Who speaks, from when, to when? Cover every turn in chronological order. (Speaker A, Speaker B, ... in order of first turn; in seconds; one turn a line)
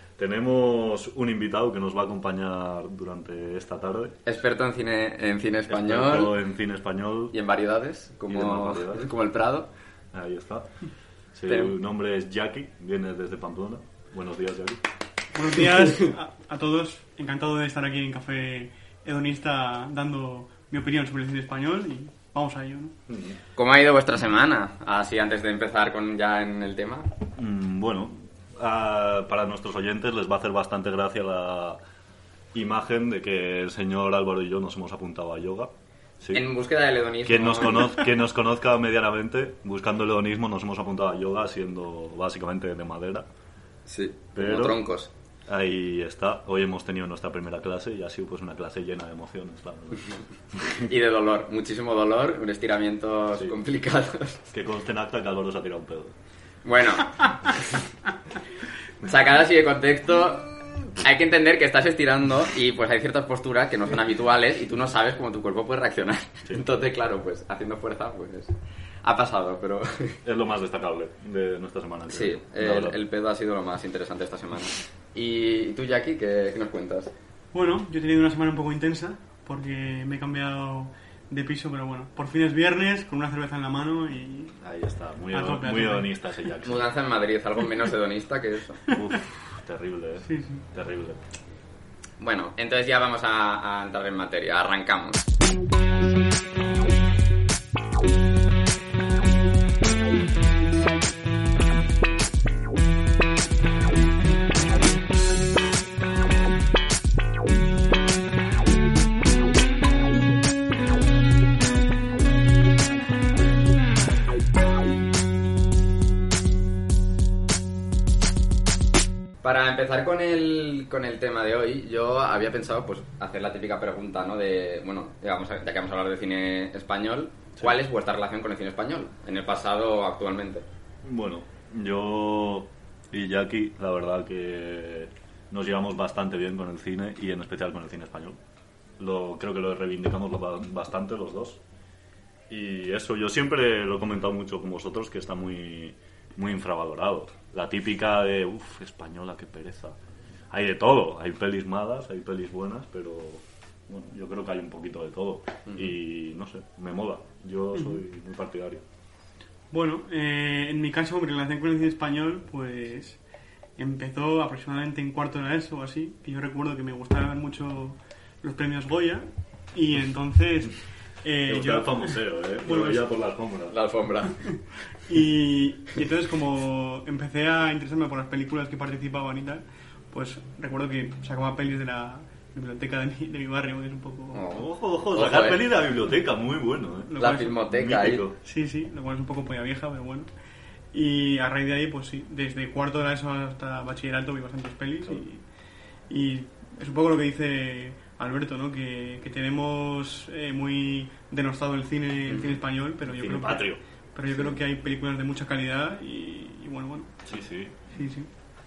Speaker A: 0.2-4.2
Speaker B: 4.2-6.3
Speaker A: 5.7-7.3
Speaker B: 7.3-9.7
Speaker A: 8.3-9.1
Speaker A: 10.1-10.7
Speaker A: 11.3-14.8
Speaker B: 11.5-11.8
Speaker C: 15.3-22.9
Speaker A: 23.1-23.4
Speaker B: 23.6-27.1
Speaker A: 27.4-31.8
Speaker A: 32.5-36.4
Speaker B: 36.3-38.0
Speaker A: 37.2-43.2
Speaker B: 43.9-45.1
Speaker A: 44.3-44.8
Speaker A: 45.5-50.8
Speaker B: 50.7-54.5
Speaker A: 54.5-56.1
Speaker B: 56.6-57.8
Speaker B: 59.0-68.5
Speaker B: 69.0-70.2
Speaker A: 70.2-73.0
Speaker B: 72.1-77.1
Speaker C: 77.5-84.6
Speaker A: 84.6-86.9
Speaker C: 85.3-86.3
Speaker B: 86.6-88.9
Speaker A: 88.9-91.2
Speaker C: 90.2-90.6
Speaker B: 92.2-95.3
Speaker B: 119.4-130.7
Speaker A: 131.0-138.4
Speaker A: 139.0-141.6
Speaker A: 142.5-150.0
Speaker A: 150.5-158.8
Speaker C: 157.8-158.0
Speaker C: 159.7-163.2
Speaker C: 163.8-173.1
Speaker A: 171.4-173.8
Speaker B: 173.7-174.4
Speaker C: 175.1-184.4
Speaker B: 184.3-185.6
Speaker A: 184.5-188.3
Speaker C: 187.1-187.6
Speaker B: 187.2-188.2
Speaker C: 188.4-190.3
Speaker C: 190.9-195.4
Speaker C: 196.1-207.2
Speaker B: 202.3-202.6
Speaker A: 203.0-203.8
Speaker A: 207.2-207.8
Speaker C: 207.9-208.3